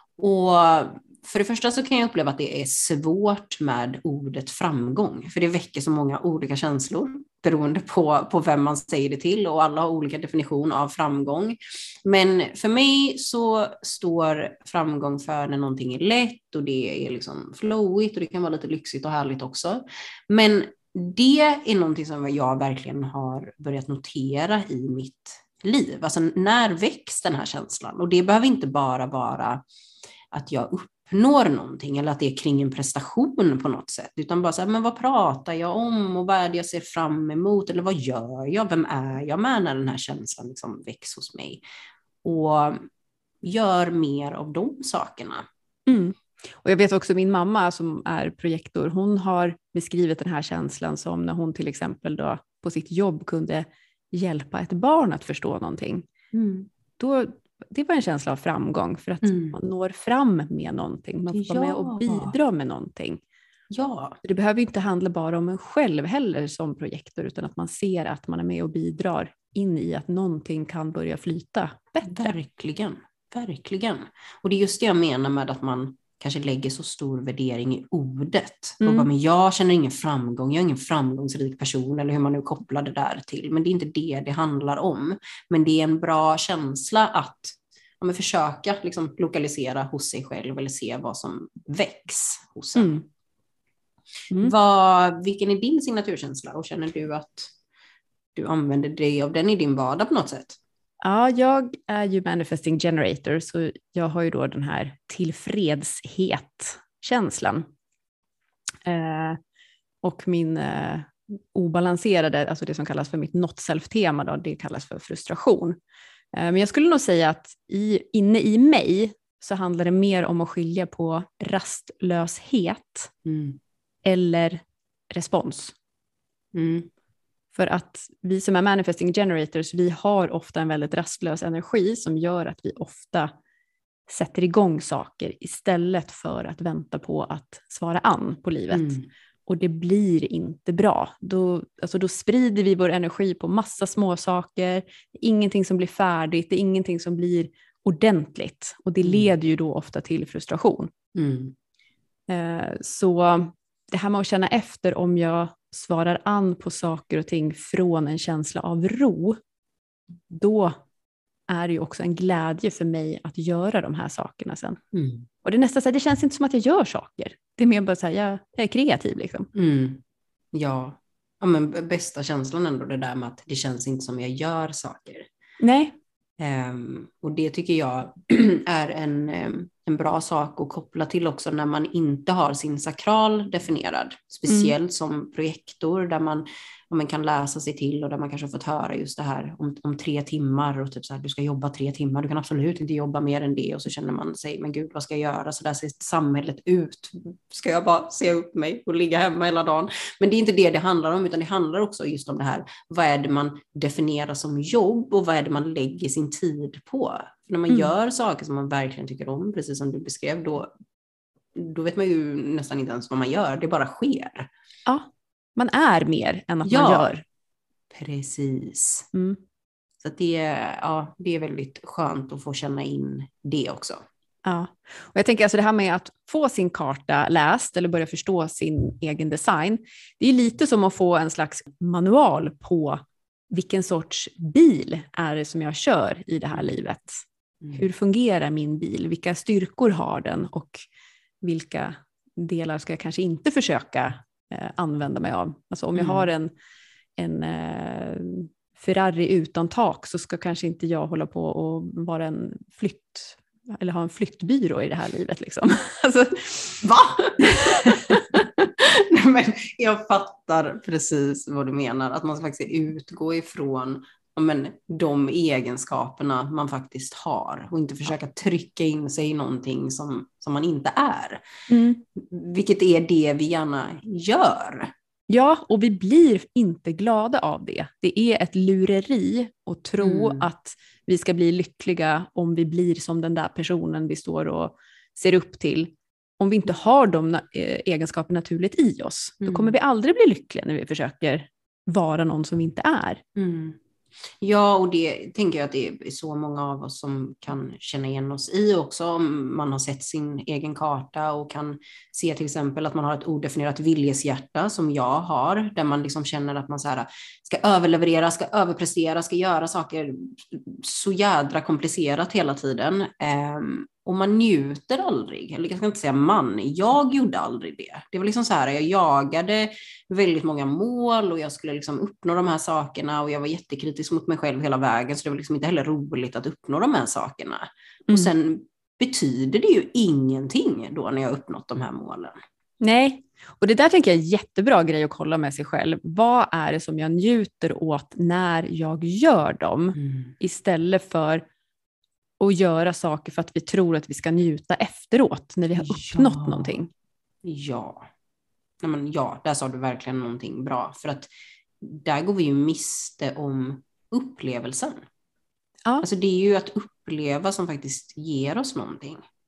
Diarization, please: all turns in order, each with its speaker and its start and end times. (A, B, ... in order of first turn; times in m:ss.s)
0:00.2-0:29.6 A
0:30.3-0:41.6 A
0:42.2-0:42.8 A
0:43.4-0:45.4 A
0:45.9-0:56.0 B
0:56.3-0:56.7 A
0:57.0-1:03.2 B
0:59.2-0:59.6 A
1:01.3-1:02.3 A
1:03.7-1:04.2 A
1:04.2-1:12.3 B
1:12.0-1:33.0 A
1:18.8-1:19.1 B
1:32.8-1:33.0 B
1:34.4-1:37.5 A
1:38.3-1:40.6 A
1:41.0-1:47.6 B
1:48.8-1:49.4 B
1:50.0-1:55.8 B
1:56.3-2:03.1 B
2:03.2-2:03.6 A
2:04.0-2:05.7 B
2:06.5-2:06.9 A
2:07.5-2:13.3 B
2:14.1-2:30.9 B
2:18.7-2:19.1 A
2:29.0-2:29.3 A
2:31.1-2:31.5 A
2:32.3-2:39.4 B
2:40.3-2:40.8 B
2:41.5-2:44.8 B
2:44.9-2:45.3 A
2:45.4-2:49.5 B
2:49.5-2:50.0 A
2:50.5-2:55.3 A
2:55.6-2:56.0 B
2:56.4-3:30.7 A
3:04.5-3:04.7 B
3:31.5-3:34.5 A
3:34.8-3:37.2 B
3:36.6-3:37.1 A
3:37.9-3:39.1 A
3:39.1-3:39.4 B
3:40.0-3:44.0 A
3:44.4-4:00.8 B
4:01.4-4:06.5 B
4:05.9-4:06.3 A
4:07.2-4:16.7 B
4:16.8-4:31.4 A
4:17.4-4:18.2 B
4:31.7-4:32.0 B
4:32.1-4:34.9 A
4:35.3-4:53.2 B
4:40.0-4:40.5 A
4:49.4-4:49.8 A
4:53.4-4:53.8 A
4:54.4-5:32.3 A
5:32.8-5:41.4 B
5:40.0-5:40.3 A
5:42.4-5:46.9 B
5:45.8-5:46.8 A
5:47.4-5:48.0 A
5:48.8-5:55.0 A
5:56.0-5:59.2 A